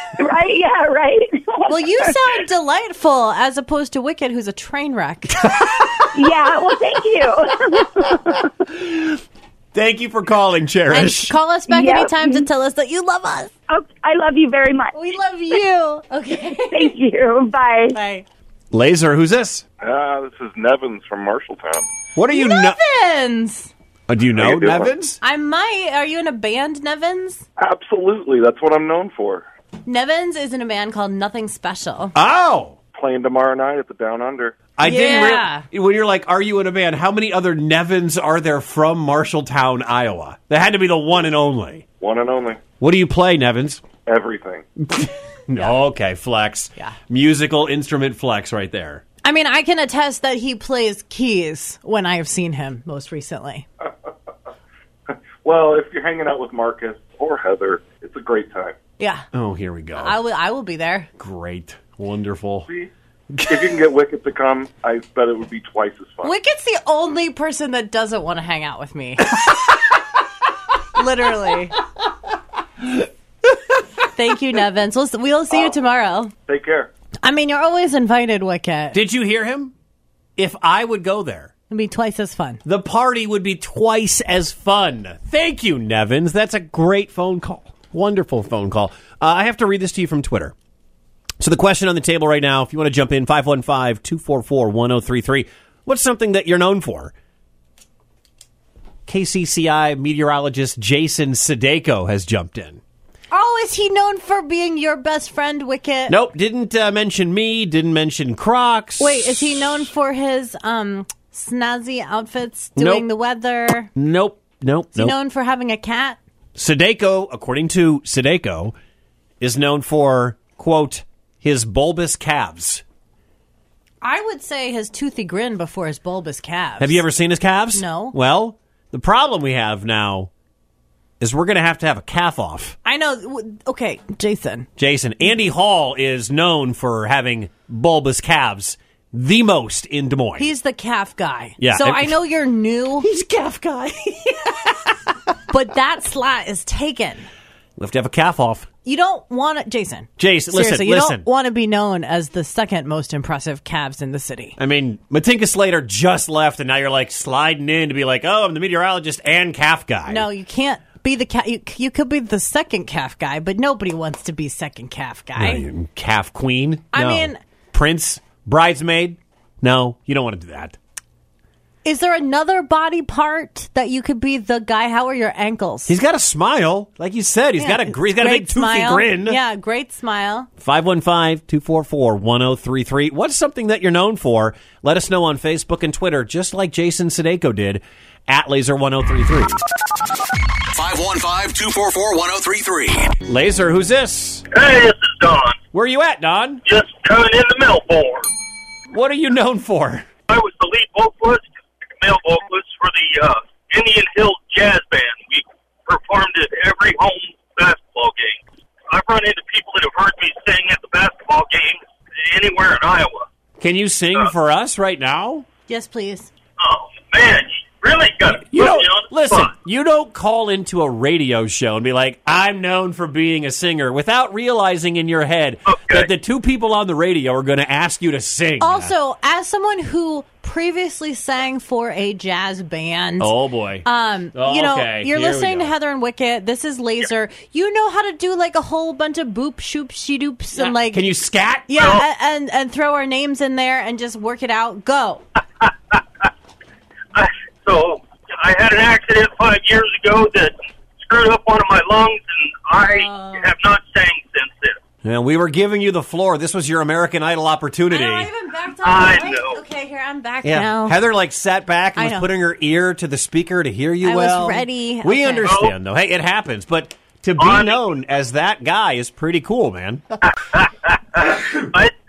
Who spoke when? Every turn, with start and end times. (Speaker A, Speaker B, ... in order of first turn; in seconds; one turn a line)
Speaker A: 0.2-2.2
Speaker B: 1.7-5.5
Speaker C: 5.4-6.3
Speaker A: 6.1-8.5
Speaker C: 8.7-9.2
Speaker C: 9.7-11.3
Speaker B: 10.9-13.5
Speaker A: 11.7-12.4
Speaker A: 13.7-14.9
Speaker B: 14.9-16.9
Speaker A: 16.7-18.0
Speaker B: 17.9-18.2
Speaker C: 18.7-19.6
Speaker D: 19.8-21.9
Speaker C: 22.1-22.8
Speaker B: 22.3-23.7
Speaker C: 24.1-25.2
Speaker D: 24.4-24.9
Speaker B: 25.2-27.4
Speaker D: 27.6-29.4
Speaker B: 29.9-32.1
Speaker C: 32.1-32.8
Speaker D: 32.9-34.7
Speaker C: 34.8-41.8
Speaker B: 34.8-35.6
Speaker D: 42.0-42.6
Speaker C: 42.8-43.8
Speaker D: 44.0-44.6
Speaker C: 44.9-49.0
Speaker B: 49.2-53.6
Speaker D: 55.4-58.8
Speaker B: 59.0-59.3
Speaker C: 59.3-60.2
Speaker B: 60.0-61.1
Speaker C: 61.2-62.7
Speaker C: 63.3-63.8
Speaker D: 63.5-66.3
Speaker B: 66.2-69.4
Speaker B: 71.0-71.8
Speaker B: 74.1-76.3
Speaker D: 76.5-76.9
Speaker B: 77.2-79.0
Speaker C: 78.9-79.7
Speaker C: 80.4-81.5
Speaker B: 81.7-82.6
Speaker C: 82.6-90.5
Speaker C: 91.4-97.1
Speaker C: 99.1-102.8
Speaker B: 103.3-106.2
Speaker C: 106.1-109.9
Speaker B: 109.0-113.9
Speaker C: 112.8-113.1
Speaker C: 113.9-115.2
Speaker B: 114.9-116.2
Speaker C: 116.5-118.8
Speaker C: 119.4-122.8
Speaker B: 124.0-127.0
Speaker C: 126.8-130.3
Speaker B: 127.7-128.2
Speaker C: 131.2-132.8
Speaker B: 132.8-134.7
Speaker C: 134.8-140.5
Speaker B: 140.4-143.1
Speaker C: 141.6-142.2
Speaker C: 143.0-144.9
Speaker B: 145.5-147.3
Speaker C: 147.8-148.7
Speaker B: 148.8-154.6
Speaker C: 150.2-151.2
Speaker C: 154.6-160.3
Speaker B: 160.1-165.6
Speaker C: 165.4-170.8
Speaker B: 166.9-167.4
Speaker B: 171.8-175.9
Speaker C: 175.9-179.4
Speaker B: 177.6-180.5
Speaker C: 180.6-189.6
Speaker E: 190.7-193.2
Speaker C: 193.2-194.4
Speaker F: 194.5-195.6
Speaker C: 195.7-196.6
Speaker F: 196.6-198.3
Speaker C: 198.9-200.1
Speaker F: 200.3-208.4
Speaker F: 208.9-213.3
Speaker C: 213.6-215.4
Speaker B: 215.7-216.3
Speaker F: 216.6-219.5
Speaker C: 218.4-228.9
Speaker F: 225.7-226.1
Speaker B: 228.6-233.3
Speaker C: 233.2-235.7
Speaker B: 233.8-241.1
Speaker C: 240.6-241.8
Speaker B: 241.7-245.2
Speaker F: 241.8-242.0
Speaker F: 245.6-246.0
Speaker F: 247.1-254.8
Speaker B: 252.9-253.5
Speaker C: 255.0-258.3
Speaker B: 257.9-261.0
Speaker F: 258.8-259.6
Speaker C: 260.4-270.0
Speaker B: 261.9-262.3
Speaker B: 264.0-265.5
Speaker F: 265.4-265.7
Speaker F: 267.4-267.8
Speaker F: 270.6-271.9